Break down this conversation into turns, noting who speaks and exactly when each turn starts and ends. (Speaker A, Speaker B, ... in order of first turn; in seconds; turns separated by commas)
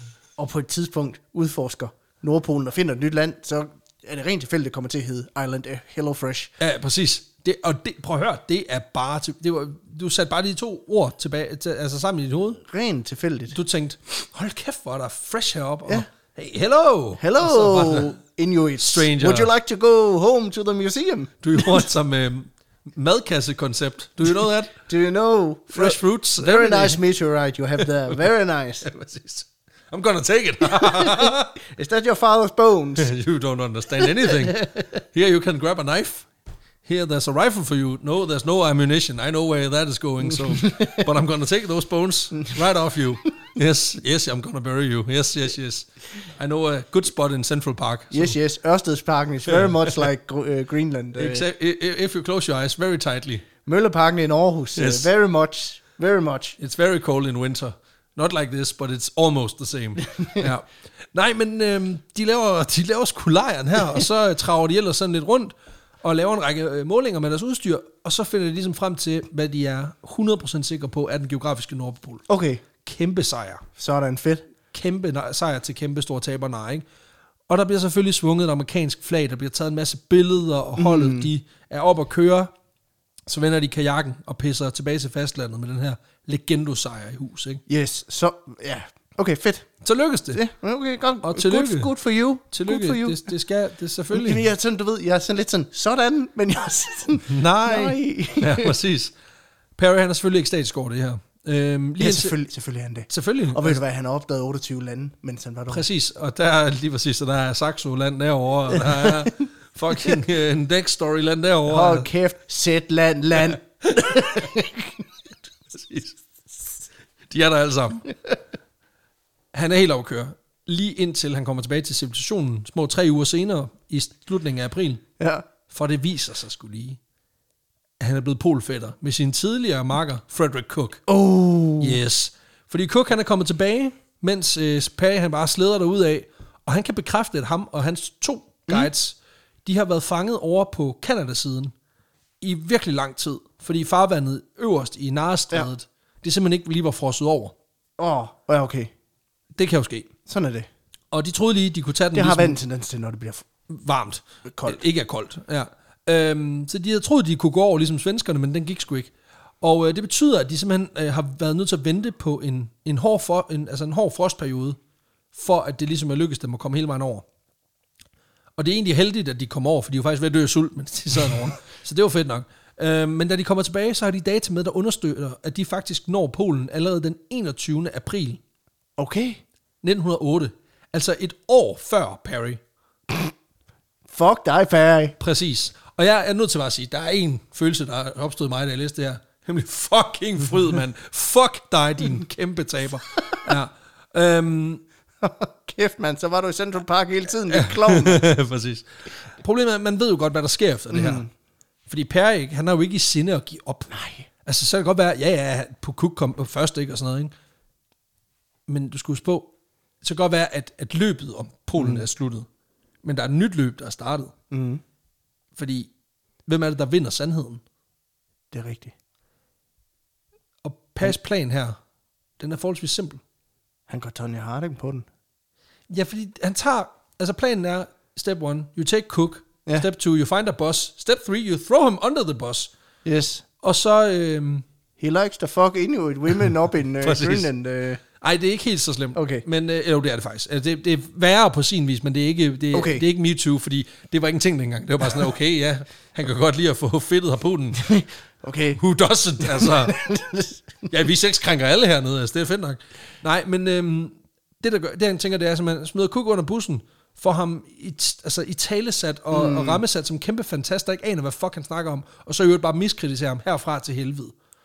Speaker A: 0.4-6.5, Speaker B: 6.6-12.6, Speaker A: 12.6-13.6, Speaker B: 13.5-18.2, Speaker A: 17.2-21.9, Speaker B: 18.8-19.5, Speaker B: 21.4-24.7, Speaker A: 24.9-28.9, Speaker B: 25.7-27.0, Speaker B: 27.8-28.2, Speaker B: 28.8-31.6, Speaker A: 30.7-33.1, Speaker B: 33.0-36.3, Speaker A: 34.0-34.5, Speaker B: 36.8-48.4, Speaker A: 40.3-41.0, Speaker A: 48.1-51.4, Speaker B: 49.5-50.0, Speaker B: 51.1-53.5, Speaker A: 53.6-56.6, Speaker B: 54.8-55.1, Speaker B: 56.6-72.2, Speaker A: 60.2-60.5, Speaker A: 72.3-72.6, Speaker B: 72.8-73.6, Speaker A: 73.8-74.4, Speaker B: 74.7-76.8, Speaker B: 77.5-82.5, Speaker A: 80.8-81.3, Speaker B: 83.3-87.6, Speaker A: 87.7-89.7, Speaker B: 89.8-90.4, Speaker A: 90.3-93.3, Speaker B: 91.2-91.9, Speaker B: 92.5-94.5, Speaker A: 94.1-98.7, Speaker B: 97.3-99.1, Speaker B: 99.8-102.3, Speaker A: 102.0-105.8, Speaker B: 103.1-103.8, Speaker B: 105.7-112.1, Speaker A: 108.7-109.3, Speaker A: 111.7-115.0, Speaker B: 114.0-114.3, Speaker B: 115.7-116.2, Speaker B: 117.3-118.1, Speaker B: 119.5-125.0, Speaker A: 125.2-125.4, Speaker B: 125.7-127.0, Speaker B: 128.0-131.0, Speaker A: 131.1-132.0, Speaker B: 131.8-141.7, Speaker B: 142.4-147.5, Speaker A: 148.0-148.9, Speaker B: 149.6-150.1, Speaker A: 150.2-150.7, Speaker B: 151.1-152.6, Speaker A: 152.1-153.4, Speaker B: 153.7-164.8, Speaker A: 154.4-154.8, Speaker B: 165.3-167.2, Speaker B: 168.6-178.4, Speaker A: 179.0-179.4, Speaker B: 179.8-182.6, Speaker A: 184.1-185.2, Speaker B: 185.2-194.8, Speaker A: 195.2-198.2, Speaker B: 197.5-201.2, Speaker A: 200.9-201.3, Speaker B: 201.9-203.9, Speaker A: 203.9-204.3, Speaker B: 204.4-207.3, Speaker B: 208.7-209.5, Speaker B: 210.0-212.4, Speaker A: 211.8-212.0, Speaker B: 213.0-214.3, Speaker A: 214.5-214.8, Speaker B: 215.6-215.9, Speaker B: 216.5-217.6, Speaker A: 218.5-218.9, Speaker B: 220.6-221.8, Speaker B: 222.4-223.2, Speaker A: 223.9-225.1, Speaker B: 225.9-232.7, Speaker A: 233.0-233.4, Speaker B: 233.6-234.6, Speaker A: 235.0-238.0, Speaker B: 237.0-237.5, Speaker B: 238.2-247.9, Speaker A: 239.1-239.4, Speaker A: 242.7-243.0, Speaker A: 247.8-248.8, Speaker B: 248.8-250.0, Speaker A: 249.4-250.9, Speaker B: 250.9-264.3, Speaker A: 259.3-259.8